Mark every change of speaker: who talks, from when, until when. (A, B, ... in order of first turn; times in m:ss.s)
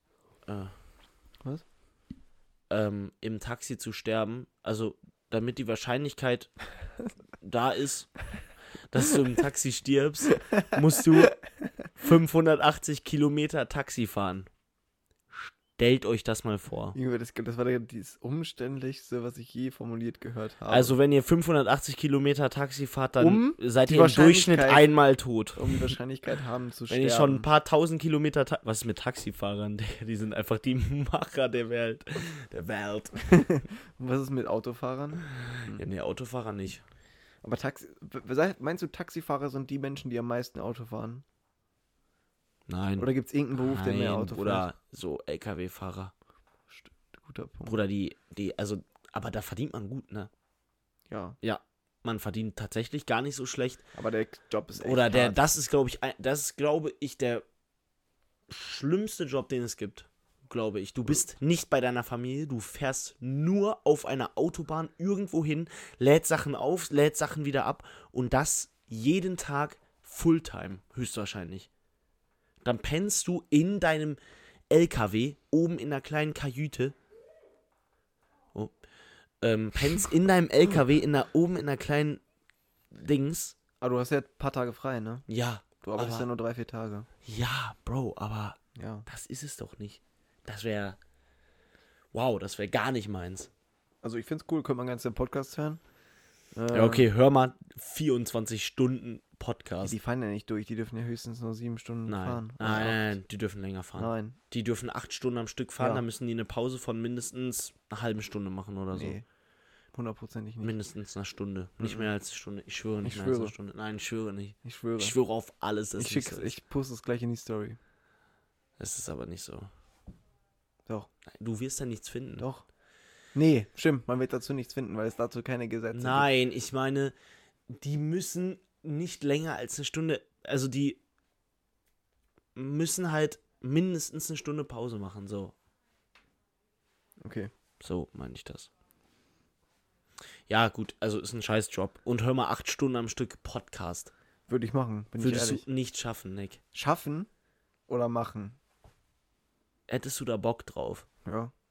0:00.5-0:00.7 A
0:02.7-0:06.5 A
0:07.4-0:08.1 A
0:08.9-0:11.4 A
0:12.0-0:14.5 A
0:15.3-0:17.0 A
0:16.9-0:21.0 B
0:20.7-0:26.0 A
0:23.2-0:24.9 B
0:25.6-0:27.5 B
0:26.9-0:33.5 A
0:33.3-0:35.8 B
0:35.3-0:36.8 A
0:37.4-0:41.2 B
0:42.7-0:46.1 A
0:43.0-0:44.7 B
0:46.7-0:47.8 B
0:47.7-0:50.3 A
0:51.1-0:51.4 B
0:51.4-0:53.8 A
0:54.0-0:55.4 B
0:54.8-0:57.4 A
0:58.5-1:11.7 A
1:12.6-1:14.2 A
1:14.7-1:17.0 A
1:19.4-1:22.2 A
1:22.9-1:23.6 A
1:23.8-1:25.3 B
1:25.3-1:26.3 A
1:25.8-1:27.1 B
1:27.2-1:31.0 A
1:28.8-1:29.1 B
1:32.1-1:33.5 A
1:34.0-1:35.8 B
1:36.6-1:37.1 B
1:36.7-1:40.0 A
1:39.8-1:43.1 B
1:42.1-1:49.2 A
1:44.0-1:44.4 B
1:45.8-1:46.0 B
1:48.9-1:49.2 B
1:49.9-1:50.7 B
1:50.6-1:56.6 A
1:51.8-1:52.1 B
1:53.0-1:53.5 B
1:54.6-1:55.2 B
1:56.0-1:57.8 B
1:58.8-1:59.7 A
2:01.3-2:02.5 A
2:02.4-2:02.6 B
2:03.4-2:06.3 B
2:05.9-2:07.2 A
2:07.7-2:11.0 A
2:12.6-2:15.5 A
2:17.2-2:17.5 B
2:17.8-2:18.7 A
2:20.5-2:24.1 A
2:24.5-2:25.6 B
2:25.2-2:26.6 A
2:26.7-2:27.3 B
2:27.9-2:28.6 B
2:29.9-2:31.1 A
2:31.2-2:31.5 B